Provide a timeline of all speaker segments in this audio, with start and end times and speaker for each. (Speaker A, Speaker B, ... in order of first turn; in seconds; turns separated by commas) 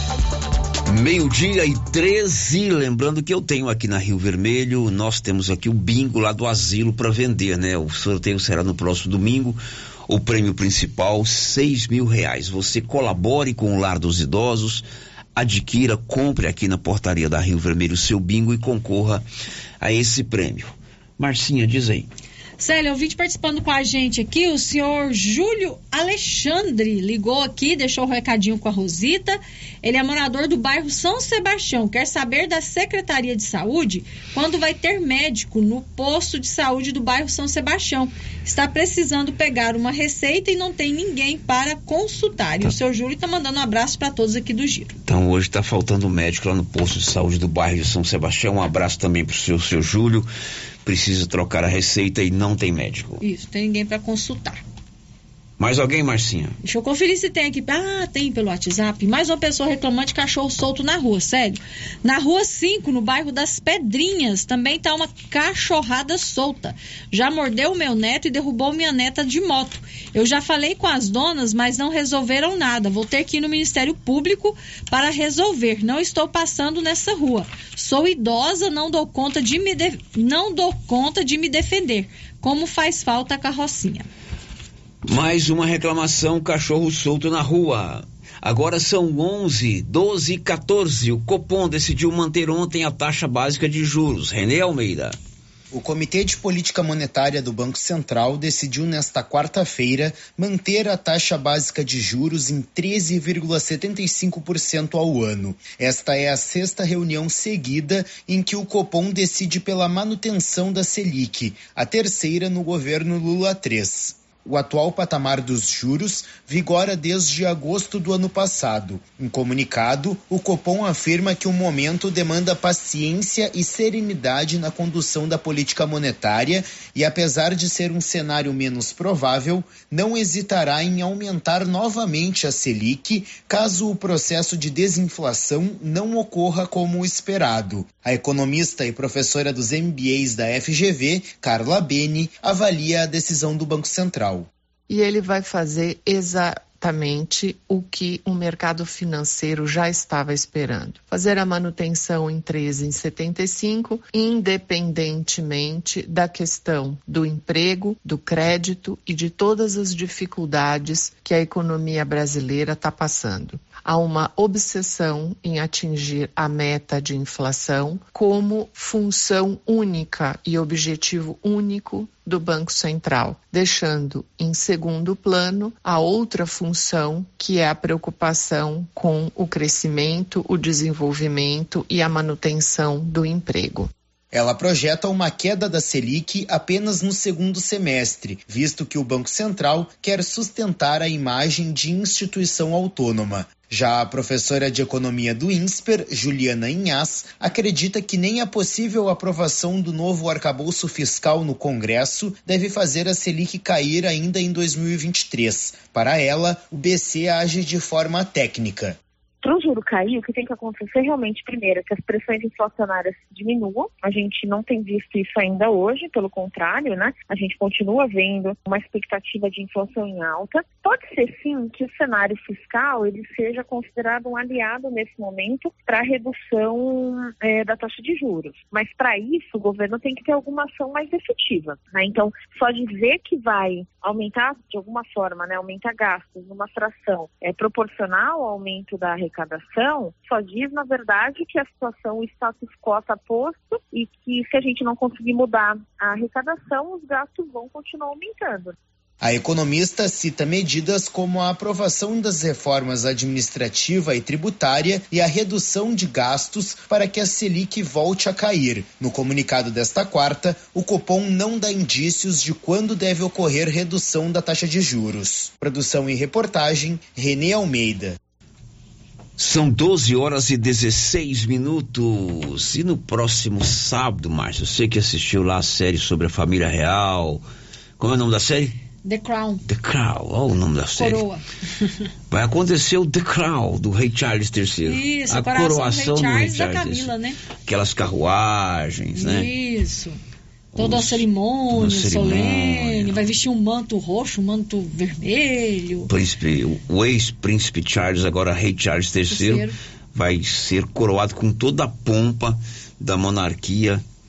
Speaker A: 0.9-14.8, Speaker A: 15.3-19.2, Speaker A: 19.8-22.1, Speaker B: 22.6-44.9, Speaker A: 45.0-50.3, Speaker A: 50.8-53.2, Speaker B: 53.2-54.6, Speaker A: 55.6-56.5, Speaker B: 56.6-84.1, Speaker A: 85.1-95.2, Speaker C: 95.7-144.5, Speaker D: 144.9-183.9, Speaker C: 184.3-209.0, Speaker E: 209.4-248.7, Speaker C: 249.2-268.2, Speaker A: 269.4-277.4, Speaker A: 278.0-278.8, Speaker B: 279.0-279.6, Speaker A: 279.7-281.2, Speaker B: 281.0-281.4, Speaker A: 282.3-287.1, Speaker B: 284.8-287.4, Speaker A: 287.6-289.5, Speaker B: 289.1-290.2, Speaker B: 290.7-296.1, Speaker A: 290.8-293.2, Speaker A: 296.1-304.0, Speaker B: 299.3-299.8